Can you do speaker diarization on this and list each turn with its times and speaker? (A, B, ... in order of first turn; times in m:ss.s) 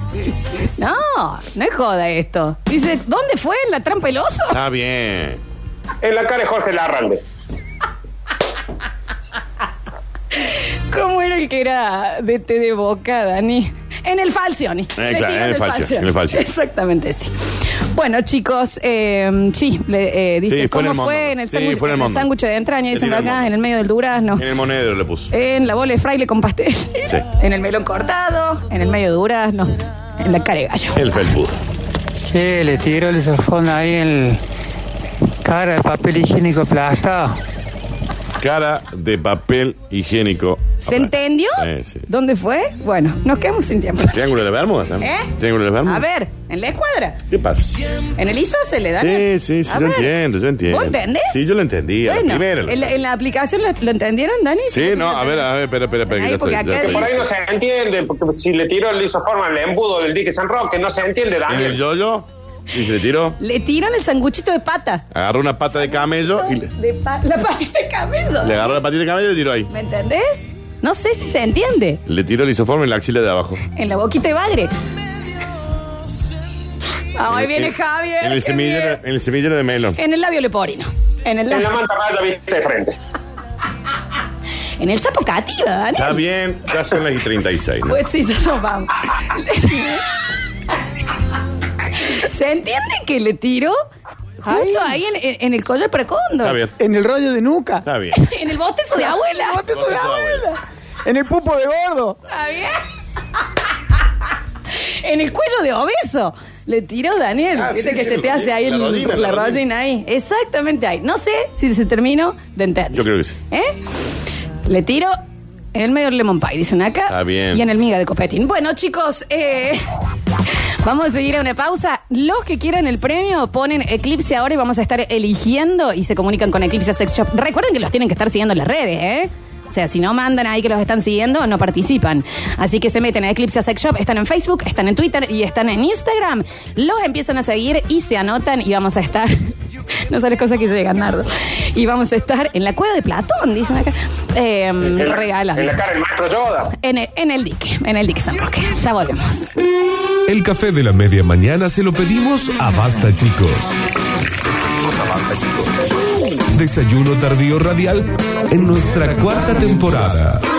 0:00.8-0:04.6 A
0:04.5-0:05.4 B
0:06.0-0:07.2 C
0:10.4-0:24.4 A
0:15.0-0:16.4 B
0:20.5-0:22.3 B
0:22.9-0:23.5 B
0:24.4-0:25.3 B
0:25.3-0:31.0 A
0:31.0-0:31.5 B
0:32.2-0:34.4 D
0:35.4-0:37.4 D
0:38.4-0:42.0 B
0:40.8-0:44.3 A
0:44.1-0:46.0 B
0:45.0-0:47.2 A
0:47.3-0:47.7 B
0:48.2-0:51.4 A
0:49.0-0:52.9 B
0:52.0-0:55.5 A
0:54.7-0:57.3 B
0:56.1-0:57.1 A
0:56.8-1:01.8 C
1:01.5-1:03.4 B
1:03.4-1:05.0 A
1:05.1-1:06.7 B
1:05.7-1:08.8 A
1:08.4-1:09.7 B
1:09.7-1:12.0 A
1:12.1-1:13.6 B
1:13.7-1:14.7 A
1:17.2-1:19.0 A
1:17.3-1:20.0 B
1:20.0-1:21.7 A
1:21.5-1:23.0 C
1:24.8-1:26.2 A
1:26.0-1:28.0 B
1:27.9-1:30.0 A
1:31.9-1:33.8 A
1:34.4-1:36.6 A
1:34.4-1:34.9 E
1:36.4-1:36.7 B
1:36.8-1:37.8 E
1:37.8-1:38.2 B
1:38.1-1:40.5 A
1:39.4-1:40.1 E
1:39.7-1:40.4 B
1:41.0-1:42.2 E
1:42.3-1:42.8 A
1:44.8-1:53.8 A
1:47.5-1:49.6 B
1:52.9-1:53.4 B
1:54.6-1:55.1 A
1:55.7-1:59.9 A
1:57.1-1:57.6 B
2:00.8-2:19.3 A
2:20.1-2:25.8 A
2:24.8-2:26.7 C
2:26.7-2:29.5 A
2:30.3-2:33.7 F
2:36.5-2:40.4 F